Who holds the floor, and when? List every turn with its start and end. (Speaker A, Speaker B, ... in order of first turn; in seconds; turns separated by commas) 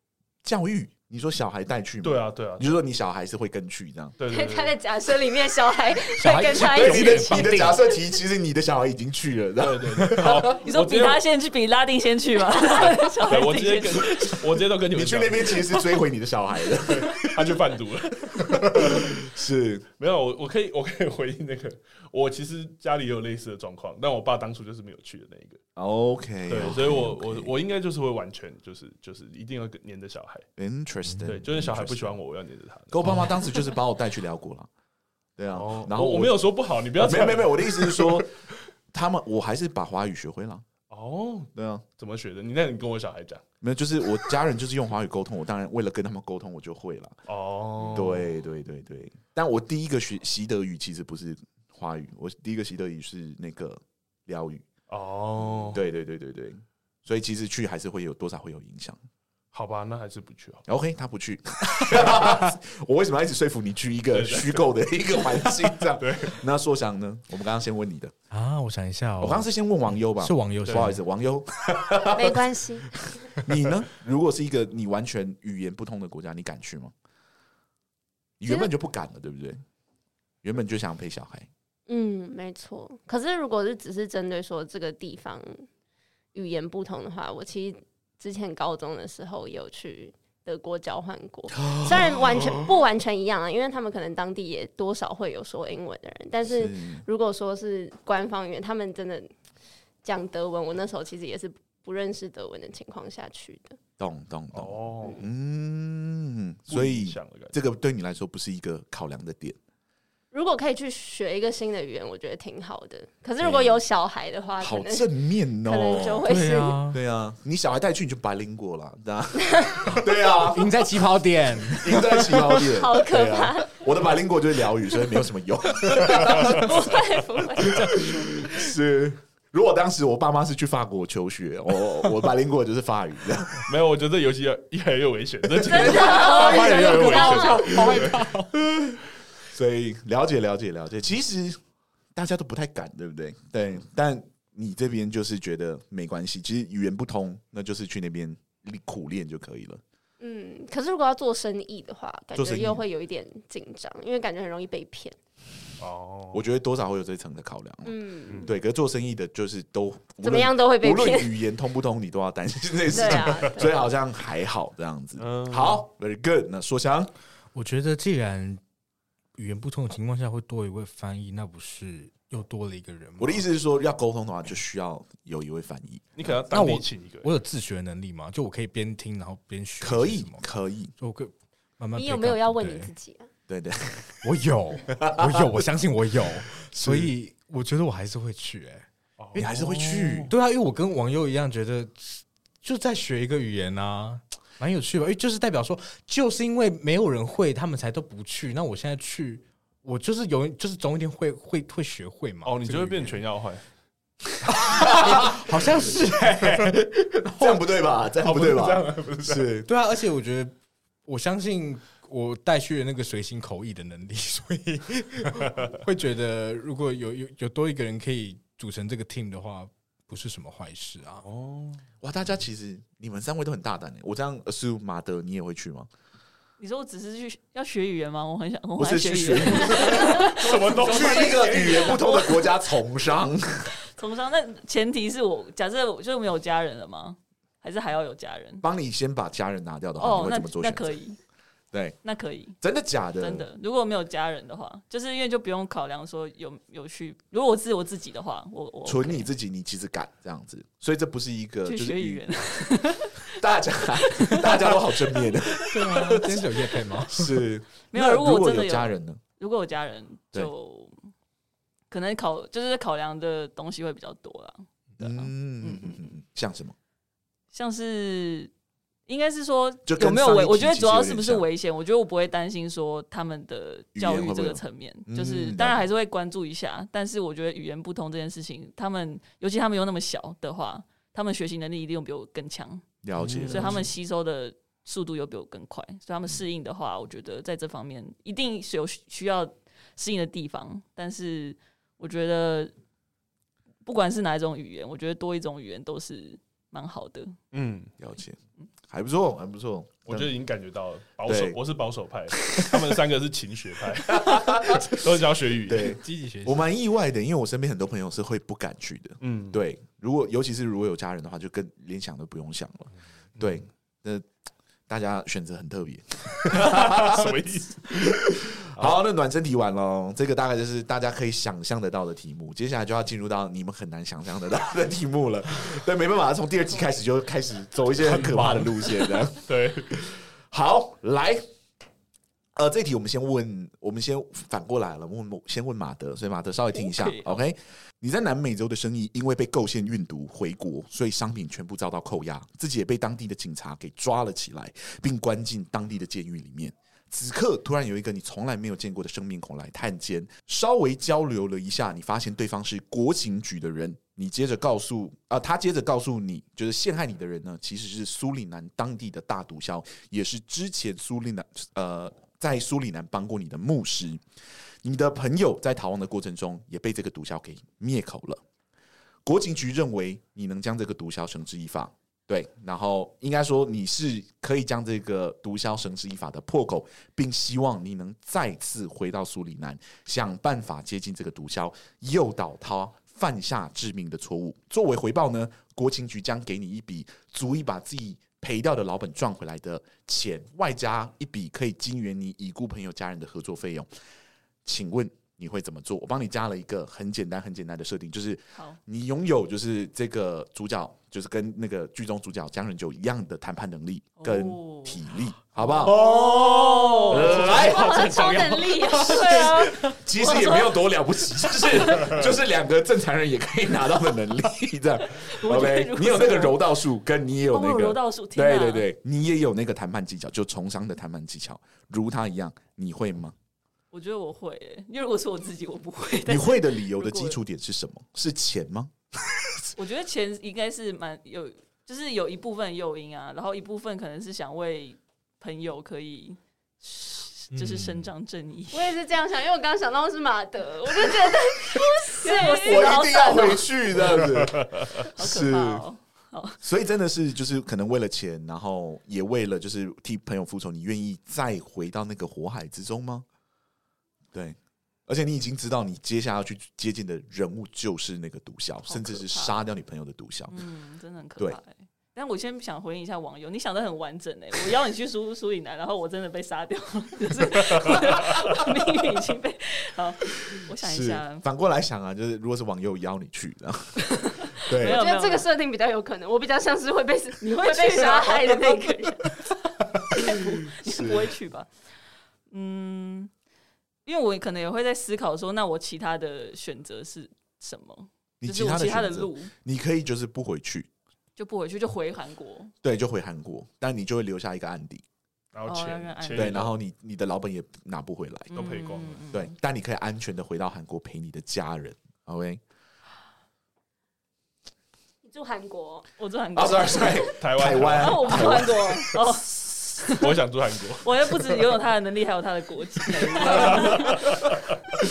Speaker A: 0.4-4.2, Speaker B: 2.0-2.8, Speaker B: 4.2-4.8, Speaker C: 4.3-7.7, Speaker D: 6.1-7.8, Speaker A: 6.5-10.3, Speaker B: 9.6-11.2, Speaker E: 10.2-14.4, Speaker B: 13.2-15.9, Speaker A: 14.9-17.6, Speaker B: 16.8-19.3, Speaker A: 18.3-19.9, Speaker B: 20.0-25.6, Speaker A: 25.8-27.5, Speaker B: 26.5-30.4, Speaker A: 30.6-32.2, Speaker B: 31.2-33.7, Speaker A: 32.9-34.7, Speaker D: 33.0-33.3, Speaker A: 35.4-36.4, Speaker B: 35.5-38.3, Speaker A: 37.0-38.3, Speaker A: 38.9-40.6, Speaker B: 40.9-43.4, Speaker A: 41.5-41.8, Speaker A: 43.6-47.2, Speaker B: 47.3-48.3, Speaker A: 47.9-54.6, Speaker B: 54.9-55.8, Speaker A: 55.6-59.0, Speaker B: 59.5-60.6, Speaker A: 60.7-68.1, Speaker B: 64.1-66.4, Speaker D: 68.3-71.0, Speaker A: 69.2-72.4, Speaker B: 70.7-70.9, Speaker C: 72.1-72.9, Speaker A: 73.2-76.9, Speaker A: 78.4-79.6, Speaker A: 80.4-81.5, Speaker C: 81.9-85.7, Speaker C: 86.3-99.3, Speaker A: 91.6-92.4, Speaker A: 96.5-97.0, Speaker C: 100.0-103.8, Speaker A: 104.0-109.6, Speaker B: 104.5-105.2, Speaker B: 106.7-107.5, Speaker C: 110.3-115.1, Speaker A: 113.4-113.8, Speaker A: 114.6-116.3, Speaker C: 115.6-116.8, Speaker D: 116.2-117.0, Speaker A: 116.9-120.8, Speaker C: 119.4-119.9, Speaker D: 120.4-122.6, Speaker A: 121.7-127.0, Speaker C: 122.6-123.8, Speaker C: 126.3-128.5, Speaker A: 127.6-133.7, Speaker B: 133.6-138.2, Speaker A: 135.6-136.9, Speaker C: 135.7-137.9, Speaker D: 136.3-138.6, Speaker A: 138.6-141.6, Speaker A: 142.1-149.8, Speaker C: 150.2-155.2, Speaker A: 152.3-152.8, Speaker B: 155.8-156.4, Speaker A: 156.3-167.1, Speaker C: 157.8-158.5, Speaker C: 160.2-161.4, Speaker C: 162.9-163.9, Speaker B: 165.2-165.8, Speaker D: 167.5-168.6, Speaker D: 169.3-173.4, Speaker A: 173.2-176.3, Speaker B: 176.1-177.3, Speaker D: 176.5-180.4, Speaker A: 179.8-180.9, Speaker D: 181.0-182.9, Speaker C: 181.9-183.3, Speaker A: 183.5-184.2, Speaker D: 184.2-189.6, Speaker A: 184.9-185.6, Speaker A: 186.6-187.1, Speaker B: 189.2-190.3, Speaker A: 189.3-190.3, Speaker D: 190.3-203.2, Speaker B: 202.4-203.6, Speaker D: 204.5-207.6, Speaker A: 204.8-205.5, Speaker A: 206.6-209.7, Speaker B: 208.2-209.5, Speaker D: 209.7-210.5, Speaker D: 211.1-221.2, Speaker B: 221.2-221.8, Speaker A: 222.0-225.9, Speaker E: 226.6-232.6, Speaker A: 228.8-233.7, Speaker B: 229.8-232.0, Speaker E: 233.8-238.7, Speaker A: 238.6-241.0, Speaker E: 240.0-241.2, Speaker E: 242.0-242.6, Speaker A: 242.6-243.5, Speaker E: 243.2-249.3, Speaker A: 248.8-256.4, Speaker E: 251.6-253.4, Speaker E: 253.9-255.7, Speaker D: 255.6-257.4, Speaker A: 257.1-259.2, Speaker E: 257.9-260.9, Speaker E: 261.9-266.1, Speaker A: 265.0-266.7, Speaker E: 267.5-268.5, Speaker E: 269.1-282.8, Speaker A: 269.9-271.4, Speaker A: 273.9-275.9, Speaker A: 283.0-283.9, Speaker B: 283.2-283.8, Speaker E: 283.5-292.7, Speaker E: 293.8-297.3, Speaker B: 297.5-297.9, Speaker A: 298.0-300.3, Speaker B: 300.0-306.0, Speaker A: 301.2-301.6, Speaker A: 302.4-302.9, Speaker A: 304.0-314.3, Speaker D: 305.8-306.6, Speaker B: 309.2-309.6, Speaker B: 313.4-313.6, Speaker A: 314.9-331.4, Speaker B: 316.4-318.9, Speaker D: 328.2-328.6, Speaker B: 328.2-328.7, Speaker B: 329.4-329.9, Speaker A: 332.5-364.2, Speaker E: 336.8-337.4, Speaker A: 364.8-368.4, Speaker A: 369.2-393.9, Speaker A: 394.6-406.0, Speaker E: 404.2-405.0, Speaker E: 405.8-407.5, Speaker C: 405.9-409.6, Speaker D: 406.2-406.6, Speaker A: 407.1-408.2, Speaker D: 407.5-409.6, Speaker E: 409.0-410.9, Speaker A: 409.9-423.3, Speaker E: 415.1-416.6, Speaker E: 417.5-418.9, Speaker E: 423.9-427.4, Speaker A: 426.2-429.7, Speaker E: 429.8-438.9, Speaker D: 437.5-438.1, Speaker C: 438.7-443.9, Speaker E: 441.8-443.6, Speaker A: 442.5-445.9, Speaker B: 444.2-444.8, Speaker E: 445.1-446.6, Speaker A: 446.6-453.2, Speaker A: 454.3-460.6, Speaker E: 458.9-459.6, Speaker E: 460.5-471.4, Speaker A: 470.8-475.0, Speaker E: 474.5-475.5, Speaker C: 474.8-479.4, Speaker E: 477.4-479.5, Speaker E: 480.2-481.7, Speaker A: 480.8-481.3, Speaker E: 482.5-483.3, Speaker E: 484.1-489.5, Speaker A: 488.4-490.9, Speaker E: 491.4-492.7, Speaker A: 492.8-495.0, Speaker B: 495.5-496.8, Speaker E: 495.7-496.6, Speaker A: 496.3-498.5, Speaker E: 498.5-499.5, Speaker B: 498.5-499.2, Speaker A: 499.3-502.6, Speaker C: 505.2-506.1, Speaker E: 506.2-507.4, Speaker A: 506.5-508.9, Speaker B: 507.3-508.5, Speaker E: 507.9-510.4, Speaker C: 508.6-509.1, Speaker B: 510.1-511.8, Speaker E: 510.9-514.4, Speaker B: 513.2-515.0, Speaker A: 513.5-514.2